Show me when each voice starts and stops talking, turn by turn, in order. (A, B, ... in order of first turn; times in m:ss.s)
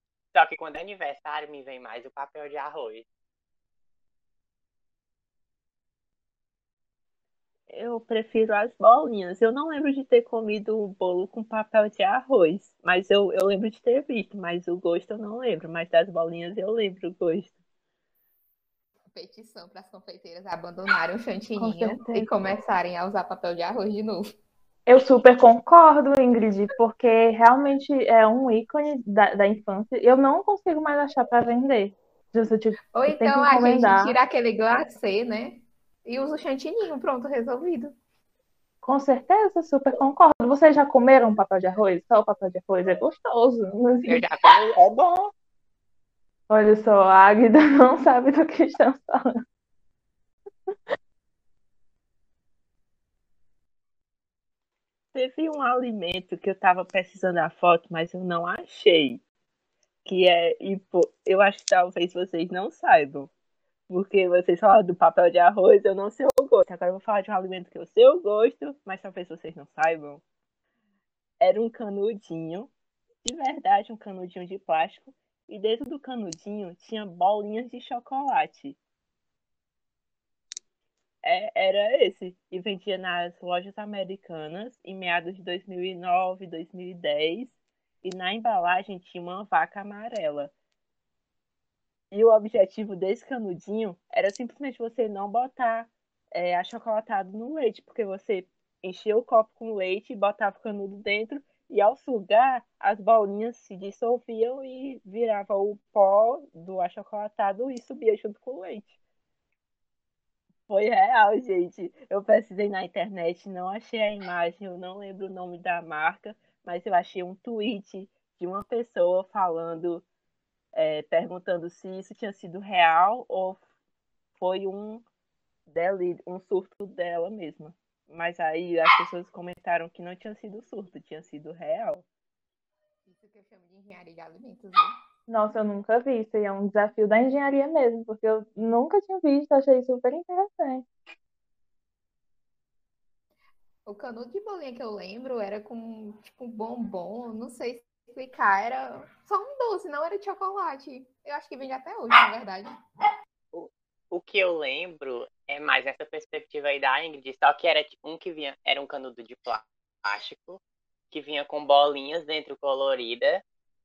0:00.3-0:03.0 A
0:07.7-0:17.5 B
0:19.1-0:24.2 C
0:21.6-0:22.3 D
0:24.9-0:34.1 D
0:32.9-0:37.9 C
0:38.8-0:44.2 D
0:44.1-0:45.3 A
0:46.5-0:49.3 D
0:55.1-0:59.2 B
1:00.0-1:03.3 B
1:03.9-1:10.2 B
1:11.4-1:12.7 B
1:13.2-1:18.8 B
1:21.2-1:30.5 B
1:32.1-1:48.9 B
1:50.7-2:00.0 B
2:00.7-2:03.6 B
2:04.4-2:05.0 B
2:05.7-2:12.0 B
2:13.0-2:14.9 C
2:15.3-2:20.8 D
2:23.8-2:32.7 C
2:33.5-2:40.6 A
2:41.1-2:43.4 A